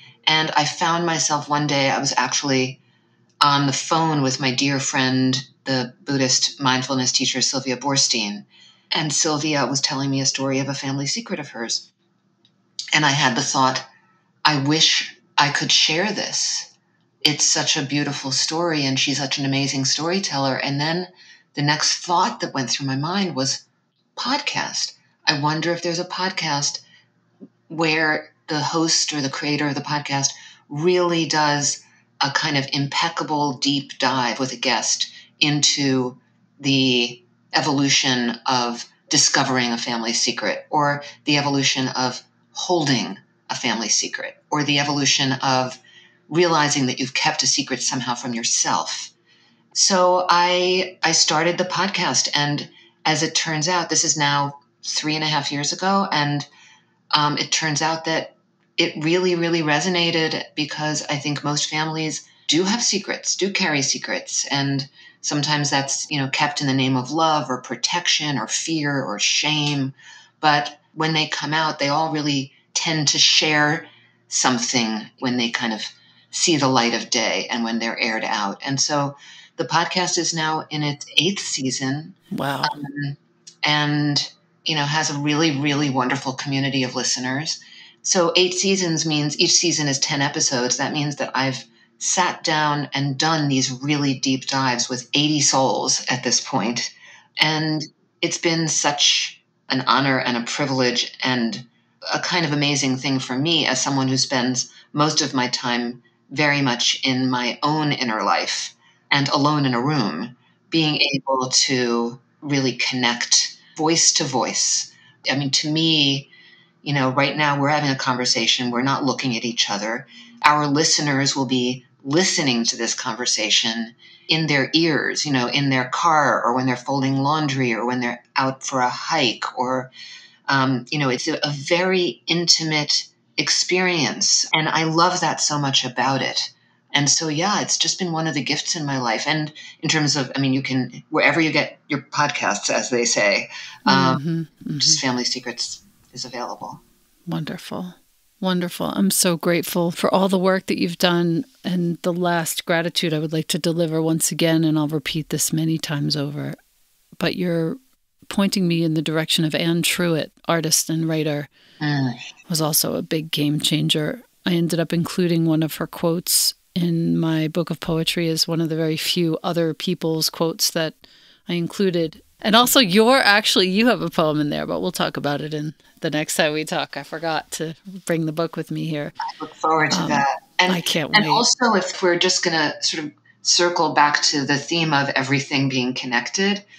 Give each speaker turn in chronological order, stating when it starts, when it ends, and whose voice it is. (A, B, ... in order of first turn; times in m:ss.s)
0:00.3-0:02.8 A
0:03.4-0:11.9 A
0:13.0-0:13.9 A
0:14.4-0:16.7 A
0:17.2-0:23.6 A
0:24.2-0:26.8 A
0:27.7-0:49.1 A
0:49.7-0:56.5 A
0:57.1-1:56.3 A
1:22.3-1:22.8 B
1:56.8-2:09.9 A
2:10.5-2:24.2 A
2:23.9-2:25.0 B
2:24.8-2:26.8 A
2:27.3-2:36.6 B
2:37.2-2:41.5 B
2:41.8-2:42.2 A
2:42.5-2:59.2 B
2:59.3-3:06.6 A
2:59.9-3:01.4 B